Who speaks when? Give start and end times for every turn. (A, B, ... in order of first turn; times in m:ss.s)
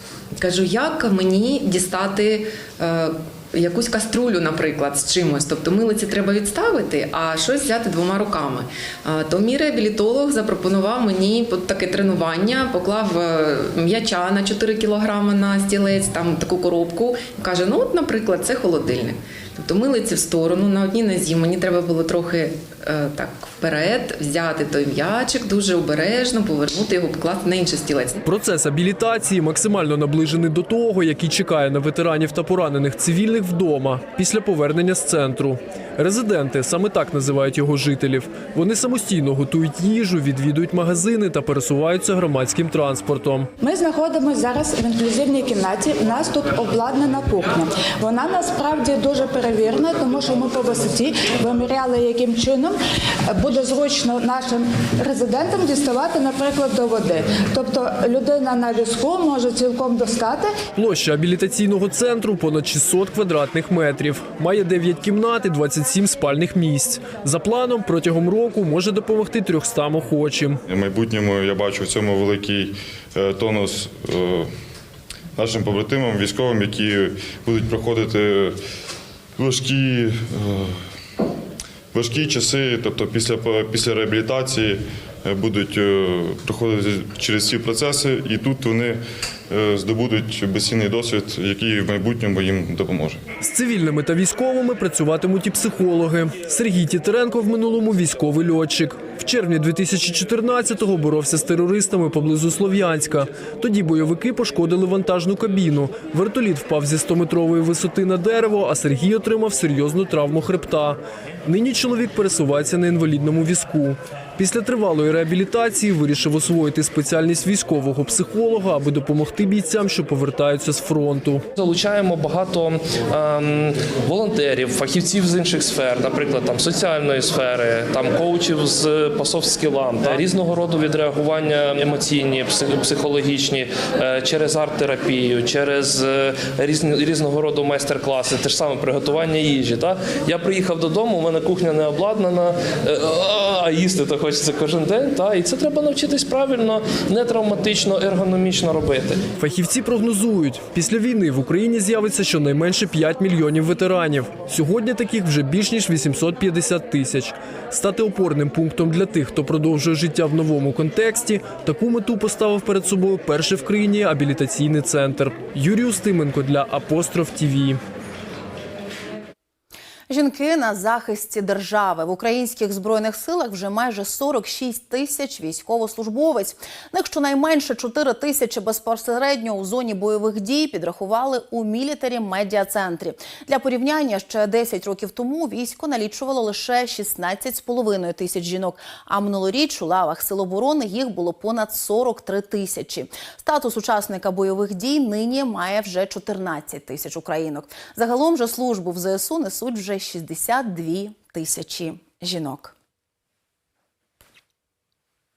0:00.4-0:28.2 A
0:28.3-0:43.5 B
0:43.6-0:52.8 C
0:53.3-1:00.5 C
1:00.8-1:10.6 B
1:10.7-1:14.5 D
1:15.4-1:18.6 D
1:19.4-1:20.8 D
1:21.9-1:33.2 D
1:33.4-2:01.4 B
2:01.6-2:29.2 E
2:29.4-2:47.8 B
2:50.1-3:22.7 F